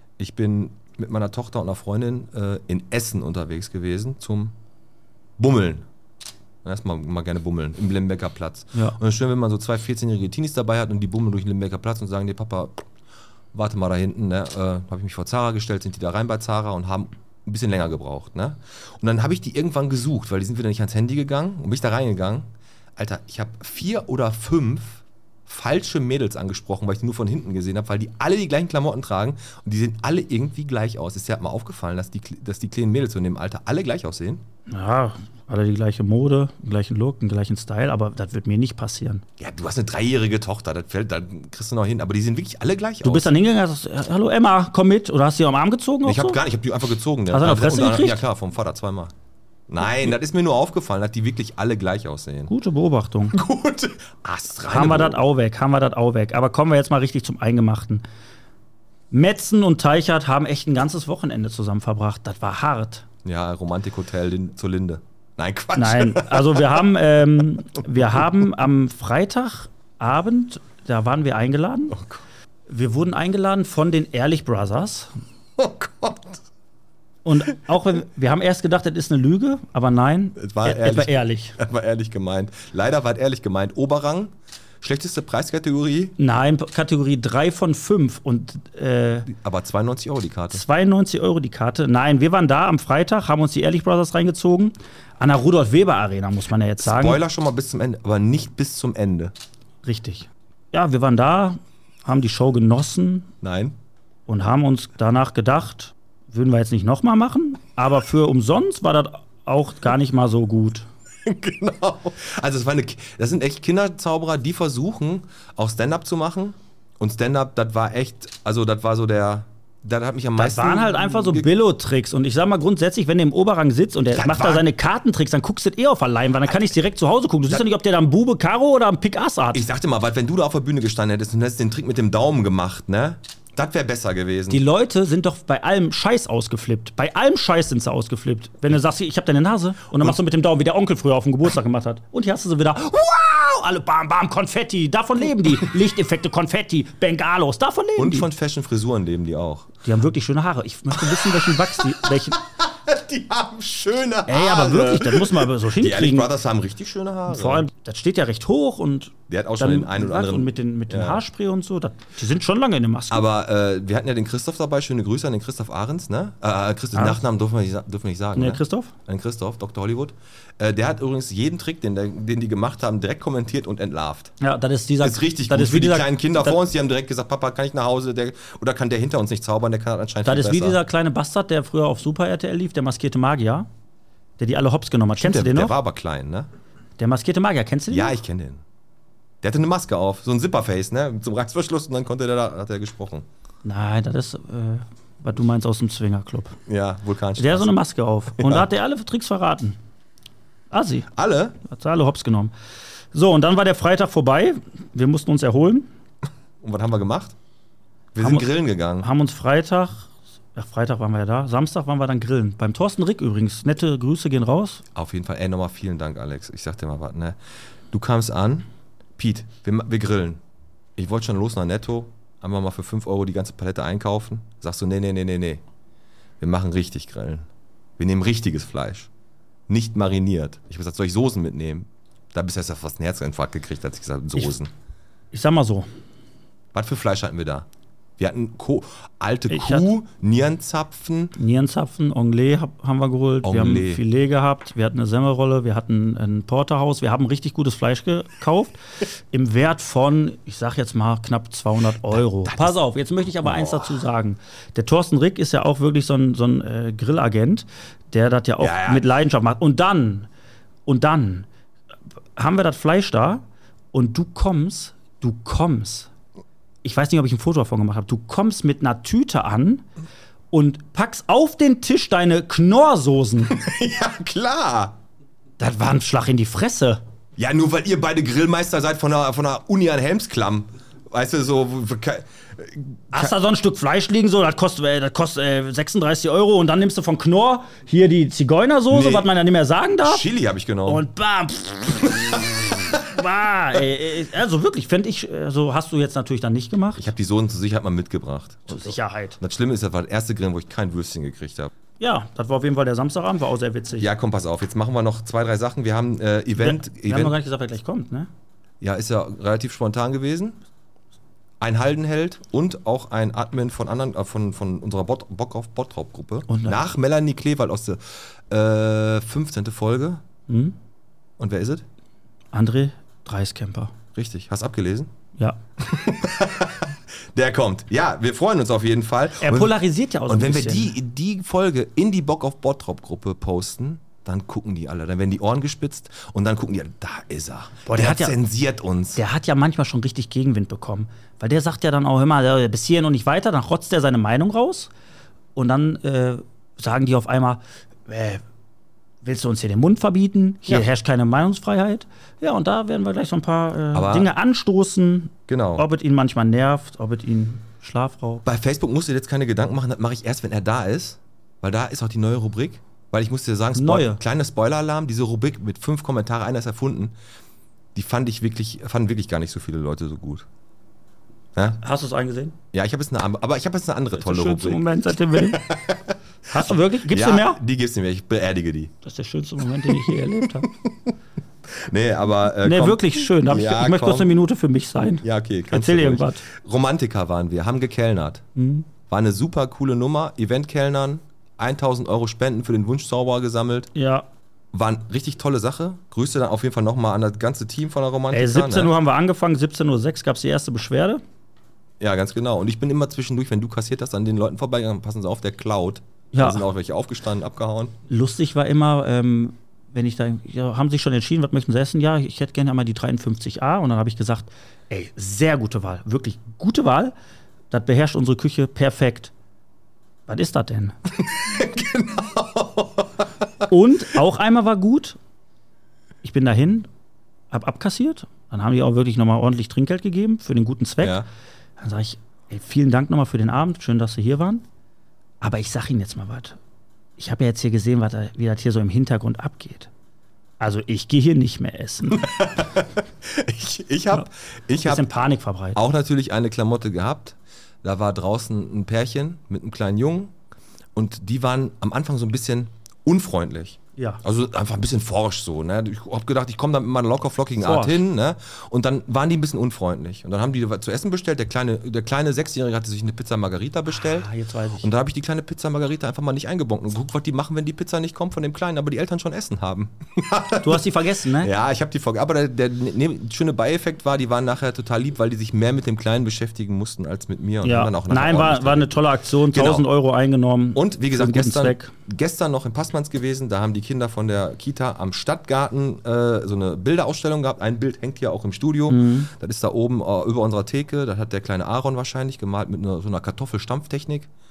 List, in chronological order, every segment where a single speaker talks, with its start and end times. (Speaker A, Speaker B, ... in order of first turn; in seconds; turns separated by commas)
Speaker A: 0.2-4.5, Speaker A: 5.4-5.9, Speaker A: 6.6-12.8, Speaker A: 13.5-34.4, Speaker B: 34.7-39.2, Speaker A: 39.4-43.3, Speaker B: 43.0-46.4, Speaker A: 46.0-49.1, Speaker B: 47.3-48.2, Speaker A: 49.7-52.5, Speaker B: 52.5-53.4, Speaker A: 53.3-55.2, Speaker B: 54.7-58.0, Speaker B: 59.1-63.0, Speaker A: 63.2-66.8, Speaker B: 65.8-72.0, Speaker A: 71.9-72.2, Speaker B: 72.7-75.1, Speaker A: 75.6-76.4, Speaker B: 77.2-81.6, Speaker A: 80.4-86.2, Speaker B: 86.2-89.3, Speaker A: 89.3-90.7, Speaker B: 90.5-97.2, Speaker A: 96.8-99.3, Speaker B: 99.8-103.3, Speaker A: 103.4-103.8, Speaker B: 104.3-110.9, Speaker A: 111.2-121.5, Speaker B: 120.4-129.6, Speaker A: 124.1-124.7, Speaker A: 129.5-134.7, Speaker B: 134.5-148.3, Speaker A: 148.0-149.7, Speaker B: 149.8-152.4, Speaker A: 150.9-157.7, Speaker B: 154.3-156.3, Speaker B: 157.3-163.2, Speaker A: 159.3-161.2, Speaker A: 163.1-174.3, Speaker B: 168.3-168.9, Speaker B: 174.4-176.6, Speaker A: 175.0-180.8, Speaker B: 180.2-183.7, Speaker B: 184.4-185.8, Speaker A: 185.2-186.5, Speaker B: 187.0-188.2, Speaker A: 187.9-188.6, Speaker A: 189.4-193.3, Speaker B: 193.6-196.6, Speaker A: 196.7-197.8, Speaker B: 197.4-199.8, Speaker A: 198.3-198.7, Speaker B: 200.7-201.1, Speaker A: 201.1-201.6, Speaker B: 201.7-202.5, Speaker B: 203.1-205.9, Speaker A: 206.6-207.3, Speaker A: 208.2-209.1, Speaker B: 208.2-214.8, Speaker A: 214.9-217.4, Speaker A: 217.9-218.7, Speaker A: 219.2-220.4, Speaker A: 221.0-225.6, Speaker A: 226.4-227.5, Speaker A: 228.0-229.1, Speaker A: 229.7-234.7, Speaker B: 235.3-235.9, Speaker A: 236.7-237.7, Speaker A: 238.2-241.3, Speaker B: 239.5-239.9, Speaker B: 241.4-248.8, Speaker A: 243.4-244.0, Speaker B: 249.3-260.3, Speaker A: 252.1-252.8, Speaker A: 253.4-254.0, Speaker A: 258.6-259.1, Speaker B: 260.9-261.5, Speaker B: 262.4-266.1, Speaker B: 266.8-269.9, Speaker B: 270.5-273.5, Speaker A: 273.4-275.0, Speaker B: 275.6-277.0, Speaker A: 277.4-283.3, Speaker B: 283.1-290.2, Speaker A: 288.9-289.3, Speaker A: 290.0-291.0, Speaker B: 290.9-297.1, Speaker A: 297.0-301.7, Speaker B: 298.7-299.4, Speaker B: 302.0-304.1, Speaker A: 304.0-307.4, Speaker B: 306.6-308.3, Speaker A: 308.8-310.6, Speaker A: 311.6-320.2, Speaker B: 316.5-316.8, Speaker B: 320.5-320.7, Speaker A: 321.4-321.9, Speaker B: 322.5-323.9, Speaker A: 324.1-325.1, Speaker A: 325.8-339.2, Speaker B: 329.4-330.9, Speaker B: 337.9-338.4, Speaker B: 339.2-344.9, Speaker B: 345.6-348.4, Speaker B: 349.2-358.4, Speaker A: 353.9-354.3, Speaker A: 355.5-355.9, Speaker A: 358.4-367.1, Speaker B: 363.7-364.2, Speaker A: 367.9-370.5, Speaker B: 371.8-372.6, Speaker A: 372.7-378.9, Speaker B: 374.2-375.6, Speaker B: 376.5-377.6, Speaker B: 379.0-380.7, Speaker A: 379.9-381.1, Speaker A: 381.7-384.4, Speaker B: 382.6-386.4, Speaker A: 385.2-388.4, Speaker B: 388.6-388.9, Speaker A: 389.1-393.9, Speaker B: 393.9-394.3, Speaker A: 394.7-398.9, Speaker B: 398.3-401.2, Speaker A: 402.0-407.9, Speaker B: 406.3-406.6, Speaker B: 408.1-417.1, Speaker B: 417.7-419.3, Speaker B: 420.3-420.9, Speaker A: 421.2-423.2, Speaker B: 423.7-425.2, Speaker B: 426.2-426.9, Speaker B: 427.5-431.2, Speaker B: 431.8-434.6, Speaker B: 435.4-436.6, Speaker B: 437.2-439.9, Speaker B: 440.6-442.3, Speaker A: 442.1-445.1, Speaker B: 444.8-445.8, Speaker A: 445.8-450.3, Speaker A: 451.0-479.9, Speaker B: 457.6-458.0, Speaker B: 463.9-464.9, Speaker B: 470.6-471.5, Speaker B: 477.6-481.9, Speaker A: 480.7-494.3, Speaker B: 488.9-489.3